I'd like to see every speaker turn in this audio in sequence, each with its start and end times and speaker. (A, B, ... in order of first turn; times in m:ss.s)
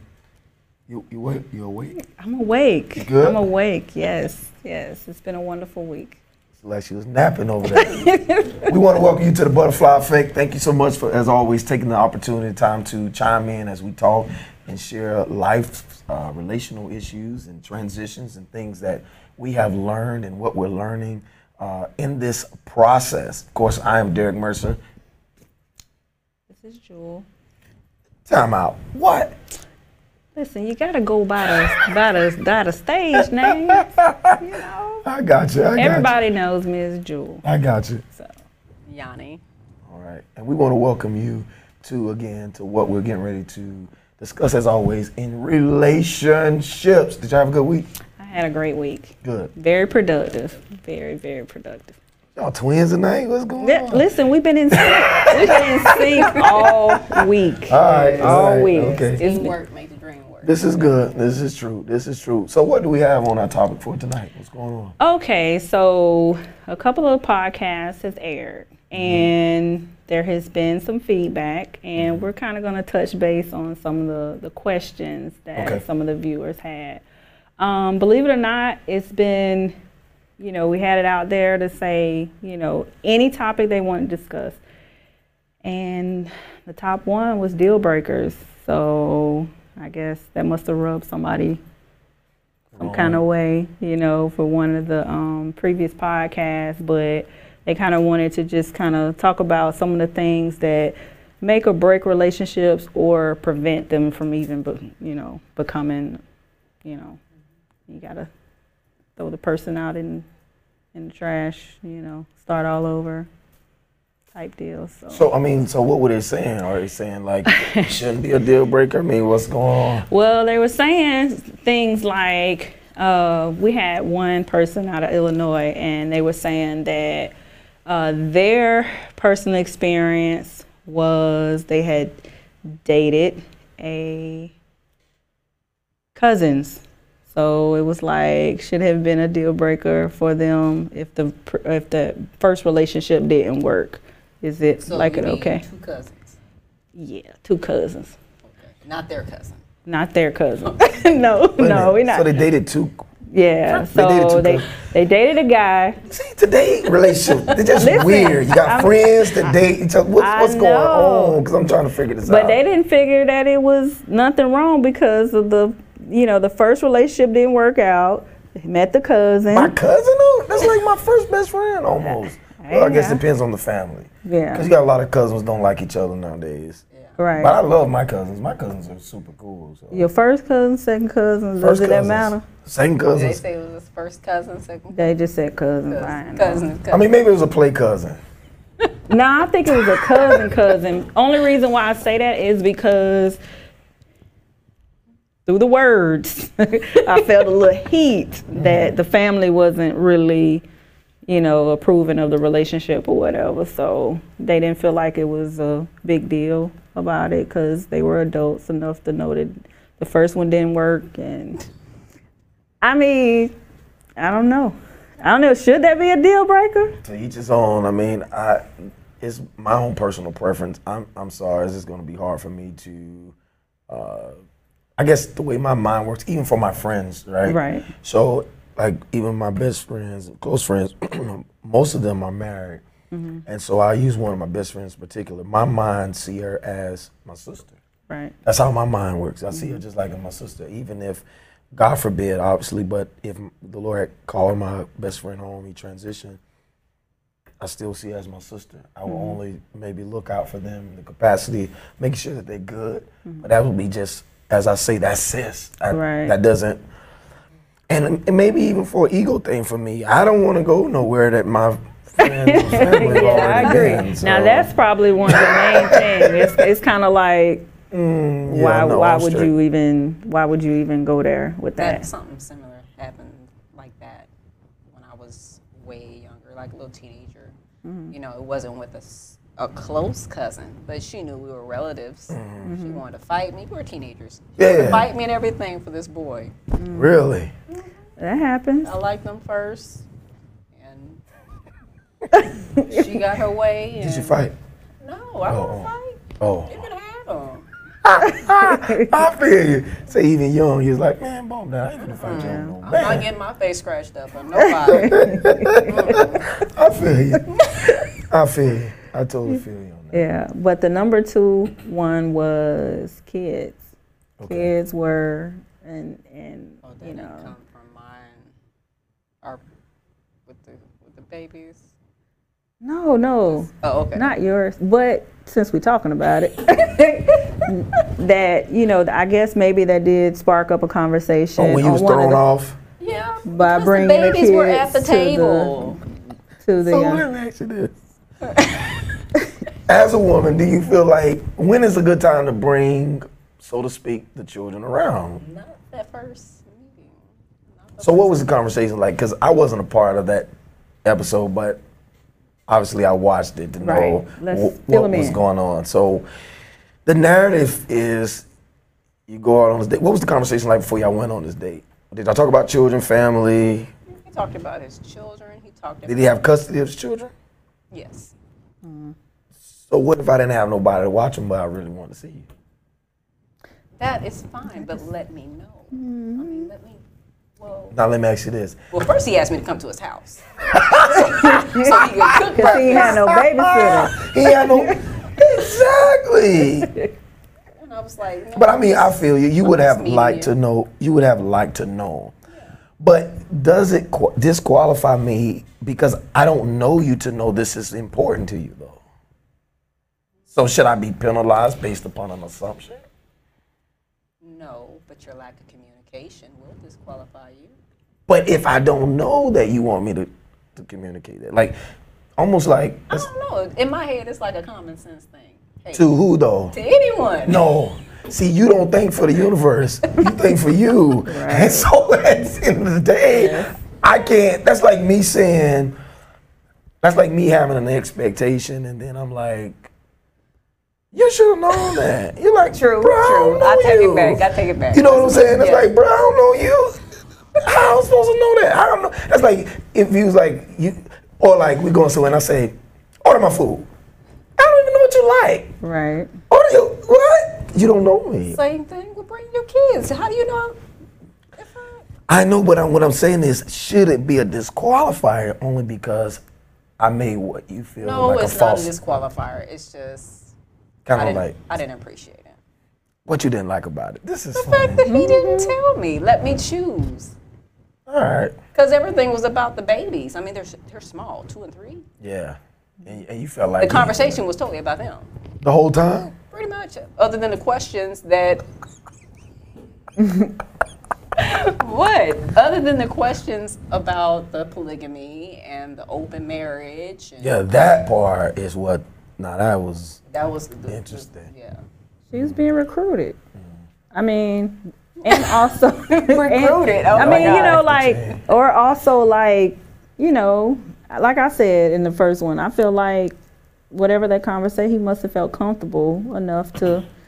0:00.9-0:02.0 A
0:02.0-0:06.2 B
0:03.0-0:03.4 A
0:06.6-0:08.0 A
0:07.6-0:08.7 B
0:08.6-0:24.8 A
0:26.5-0:27.2 B
0:28.2-0:29.3 A
0:30.3-0:35.0 B
0:33.2-0:34.4 A
0:35.0-0:36.1 A
0:35.8-0:37.4 B
0:37.4-0:38.0 A
0:38.9-0:39.4 C
0:39.8-0:47.9 A
0:48.2-0:52.0 B
0:49.2-0:49.5 A
0:52.4-0:54.0 A
0:53.6-0:59.5 B
0:54.7-0:56.7 A
0:57.7-0:59.2 A
0:57.7-1:00.6 C
1:00.4-1:04.9 A
1:05.0-1:17.0 B
1:08.9-1:09.3 A
1:12.0-1:12.2 A
1:15.6-1:15.8 A
1:17.6-1:19.7 B
1:20.4-1:24.6 B
1:25.6-1:31.6 B
1:32.7-1:33.2 A
1:32.8-1:46.2 B
1:46.8-1:47.2 B
1:47.9-1:48.3 B
1:49.2-1:50.3 B
1:50.9-1:53.3 B
1:54.3-1:55.3 B
1:55.1-2:00.0 A
1:57.5-1:57.9 B
2:00.1-2:07.3 B
2:07.8-2:12.2 B
2:12.7-2:14.5 B
2:16.1-2:25.6 B
2:24.8-2:26.4 C
2:27.0-2:28.2 B
2:28.4-2:29.6 C
2:29.8-2:32.3 B
2:31.6-2:33.0 A
2:33.3-2:36.0 B
2:33.7-2:34.6 A
2:36.1-2:42.6 A
2:37.1-2:37.7 C
2:37.7-2:39.5 B
2:40.2-2:41.4 B
2:42.2-2:49.7 B
2:49.5-2:56.8 A
2:52.0-2:53.2 B
2:54.2-2:54.7 B
2:56.9-2:57.2 C
2:57.2-2:57.6 B
2:57.4-3:00.1 A
2:59.9-3:02.4 B
3:01.6-3:03.4 A
3:03.1-3:05.1 C
3:04.9-3:06.6 B
3:05.9-3:07.1 C
3:06.9-3:08.2 A
3:09.1-3:13.4 B
3:10.1-3:10.5 C
3:15.4-3:20.6 B
3:18.5-3:18.9 A
3:21.2-3:31.6 B
3:32.8-3:33.5 B
3:34.2-3:37.0 B
3:37.0-3:38.6 A
3:39.2-3:43.3 A
3:43.9-3:44.4 A
3:45.0-3:52.8 A
3:47.4-3:47.9 B
3:53.1-3:53.4 B
3:53.4-3:57.8 A
3:58.1-3:58.3 B
3:58.4-4:06.4 A
3:59.5-3:59.8 B
4:07.6-4:16.8 A
4:09.1-4:09.4 B
4:15.9-4:16.3 B
4:17.9-4:24.7 A
4:22.2-4:27.7 B
4:23.2-4:23.8 C
4:25.2-4:26.6 A
4:27.9-4:29.5 A
4:28.5-4:32.1 B
4:31.8-4:34.3 C
4:34.9-4:37.6 C
4:37.8-4:38.1 B
4:38.1-4:46.5 C
4:42.3-4:42.7 A
4:42.6-4:43.0 B
4:44.6-4:45.1 A
4:46.8-4:47.2 B
4:46.9-4:47.5 A
4:48.2-4:48.9 B
4:48.8-4:50.0 C
4:50.7-4:51.2 C
4:52.3-4:53.1 B
4:52.8-4:54.4 C
4:54.0-4:54.5 A
4:55.0-4:57.6 C
4:55.5-4:56.9 A
4:58.0-5:03.3 A
4:58.1-4:59.2 B
5:02.0-5:05.3 C
5:02.2-5:02.8 B
5:04.6-5:06.2 B
5:04.9-5:07.6 A
5:05.8-5:06.6 C
5:08.2-5:10.2 A
5:10.1-5:13.9 B
5:14.4-5:14.7 A
5:14.4-5:17.5 B
5:16.8-5:18.5 C
5:20.5-5:21.9 C
5:22.8-5:32.4 B
5:23.7-5:24.3 C
5:31.6-5:32.8 A
5:33.0-5:36.0 C
5:33.4-5:36.0 B
5:36.6-5:37.2 B
5:36.8-5:38.0 A
5:39.9-5:45.4 A
5:45.4-5:48.5 C
5:48.0-5:50.5 A
5:51.0-5:51.8 A
5:52.7-5:56.2 A
5:53.8-5:55.4 B
5:57.0-5:58.4 A
5:59.3-6:03.9 A
6:04.1-6:06.4 C
6:06.0-6:07.3 A
6:07.9-6:08.3 C
6:08.8-6:09.1 B
6:09.6-6:12.5 A
6:14.0-6:17.0 C
6:15.9-6:16.7 B
6:17.6-6:18.0 C
6:17.9-6:18.8 A
6:18.9-6:23.2 C
6:20.7-6:26.9 A
6:21.0-6:22.0 B
6:22.5-6:25.0 B
6:26.8-6:27.1 B
6:27.8-6:30.5 C
6:28.5-6:32.3 A
6:33.0-6:39.0 A
6:40.5-6:43.0 A
6:44.4-6:47.8 C
6:48.3-6:51.7 A
6:52.4-6:53.3 A
6:53.1-6:56.2 C
6:55.9-6:56.8 A
6:56.7-6:57.6 C
6:57.4-7:06.0 A
7:01.2-7:01.9 B
7:03.3-7:03.7 C
7:07.0-7:09.9 A
7:11.1-7:17.0 A
7:12.7-7:15.9 C
7:17.6-7:23.9 A
7:24.6-7:25.7 A
7:25.8-7:26.3 B
7:26.5-7:28.6 A
7:28.5-7:30.8 C
7:31.6-7:32.0 C
7:32.3-7:36.4 A
7:37.0-7:38.9 A
7:38.0-7:40.5 C
7:41.0-7:41.5 A
7:41.1-7:42.6 C
7:43.2-7:45.1 A
7:44.5-7:47.4 C
7:45.0-7:45.7 B
7:48.1-7:48.6 A
7:48.7-7:52.0 C
7:52.2-7:54.4 A
7:53.8-7:55.3 C
7:55.6-7:56.3 A
7:56.4-7:58.6 C
8:00.2-8:00.5 B
8:01.4-8:07.6 C
8:07.4-8:10.2 A
8:10.3-8:11.8 C
8:10.9-8:11.5 A
8:12.3-8:13.4 B
8:12.3-8:12.6 A
8:13.6-8:13.8 A
8:14.1-8:23.4 B
8:15.2-8:15.6 C
8:16.3-8:17.8 C
8:17.1-8:18.4 A
8:23.9-8:27.0 B